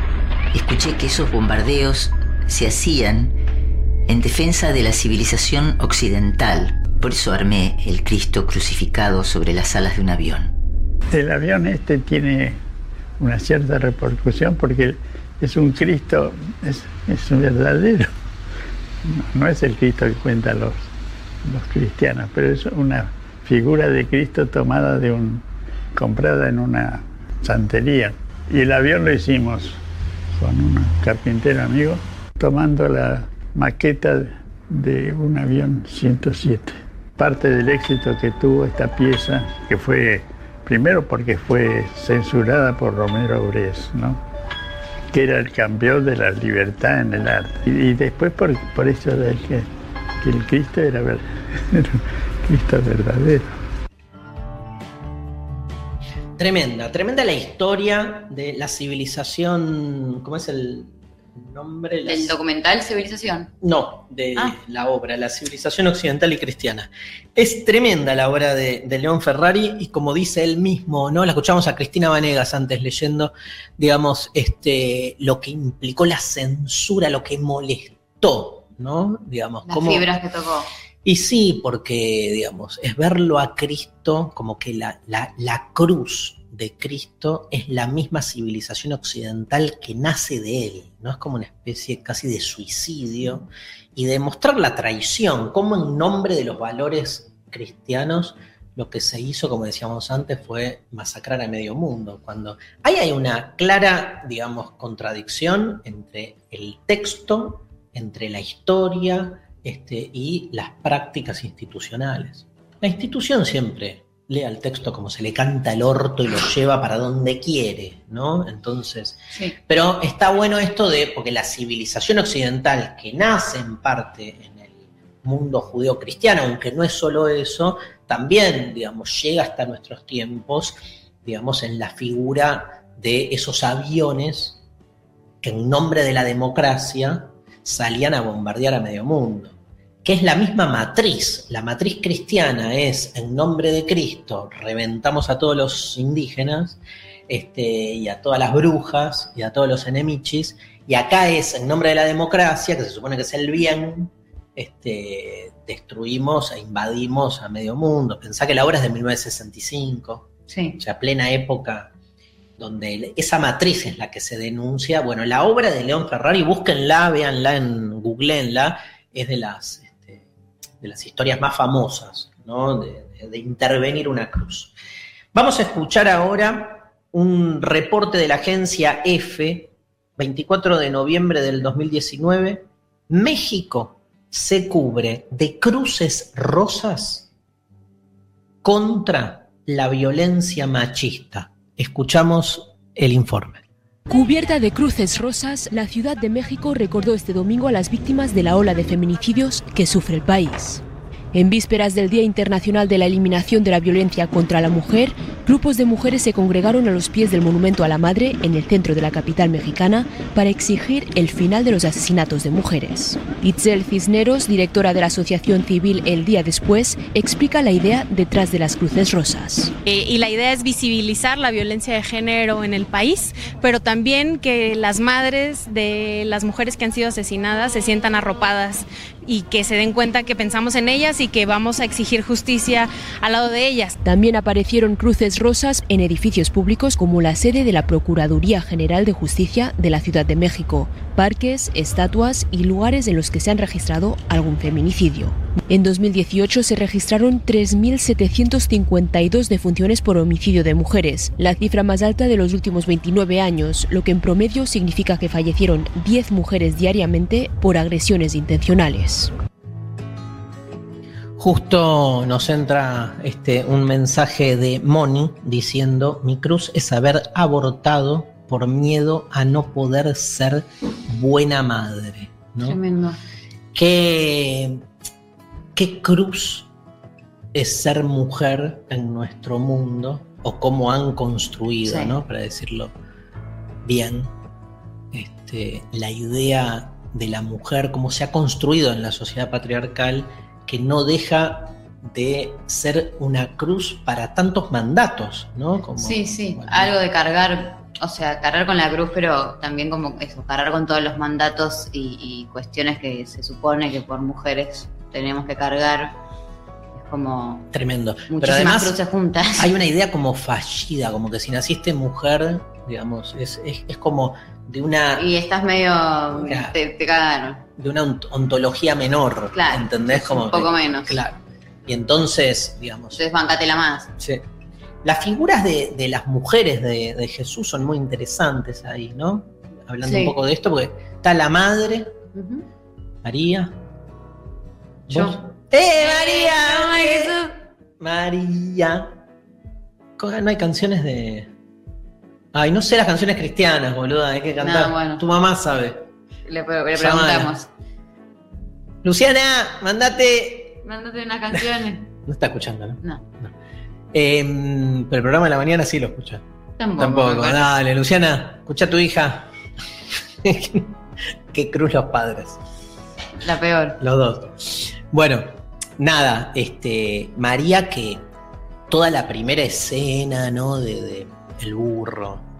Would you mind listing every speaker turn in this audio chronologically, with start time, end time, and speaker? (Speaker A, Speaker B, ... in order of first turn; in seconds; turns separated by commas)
Speaker A: 0.5-3.4, Speaker A: 4.1-10.5, Speaker B: 11.1-12.6, Speaker B: 13.2-18.1, Speaker B: 19.1-20.8, Speaker B: 21.4-25.4, Speaker B: 25.9-29.8, Speaker B: 30.3-44.2, Speaker B: 45.1-49.7, Speaker B: 50.2-53.5, Speaker C: 56.4-62.3, Speaker D: 62.0-63.5, Speaker C: 63.6-80.1, Speaker D: 79.7-80.7, Speaker C: 81.0-134.6, Speaker C: 135.4-160.2, Speaker D: 160.5-160.8, Speaker C: 160.8-161.9, Speaker C: 162.6-170.2, Speaker C: 170.8-174.7, Speaker C: 175.3-187.3, Speaker C: 188.6-193.6, Speaker E: 194.1-219.7, Speaker F: 219.8-233.9, Speaker E: 234.0-259.3, Speaker C: 261.4-272.8, Speaker D: 272.6-273.2, Speaker C: 273.7-274.8, Speaker C: 275.7-276.7, Speaker C: 277.5-282.9, Speaker D: 281.8-282.1, Speaker C: 283.8-284.3, Speaker C: 285.1-296.9, Speaker D: 296.0-306.1, Speaker D: 306.9-307.7, Speaker C: 307.7-308.9, Speaker D: 308.3-309.7, Speaker C: 309.6-315.2, Speaker D: 315.1-317.6, Speaker C: 316.4-316.7, Speaker C: 317.8-323.2, Speaker D: 319.5-321.2, Speaker D: 323.1-324.1, Speaker C: 324.2-324.4, Speaker C: 325.0-332.1, Speaker D: 330.0-330.4, Speaker D: 332.3-332.6, Speaker C: 333.2-333.7, Speaker C: 335.1-337.4, Speaker D: 335.1-335.4, Speaker D: 335.9-337.5, Speaker C: 338.0-339.1, Speaker C: 340.2-341.5, Speaker C: 342.5-346.1, Speaker D: 344.6-345.2, Speaker D: 346.4-347.7, Speaker C: 346.9-347.5, Speaker C: 349.0-350.8, Speaker D: 350.8-352.1, Speaker C: 352.2-353.5, Speaker C: 354.1-356.4, Speaker D: 356.8-357.6, Speaker C: 357.0-359.5, Speaker C: 360.4-360.9, Speaker C: 361.5-362.6, Speaker D: 363.4-364.0, Speaker C: 364.0-368.2, Speaker C: 368.9-372.4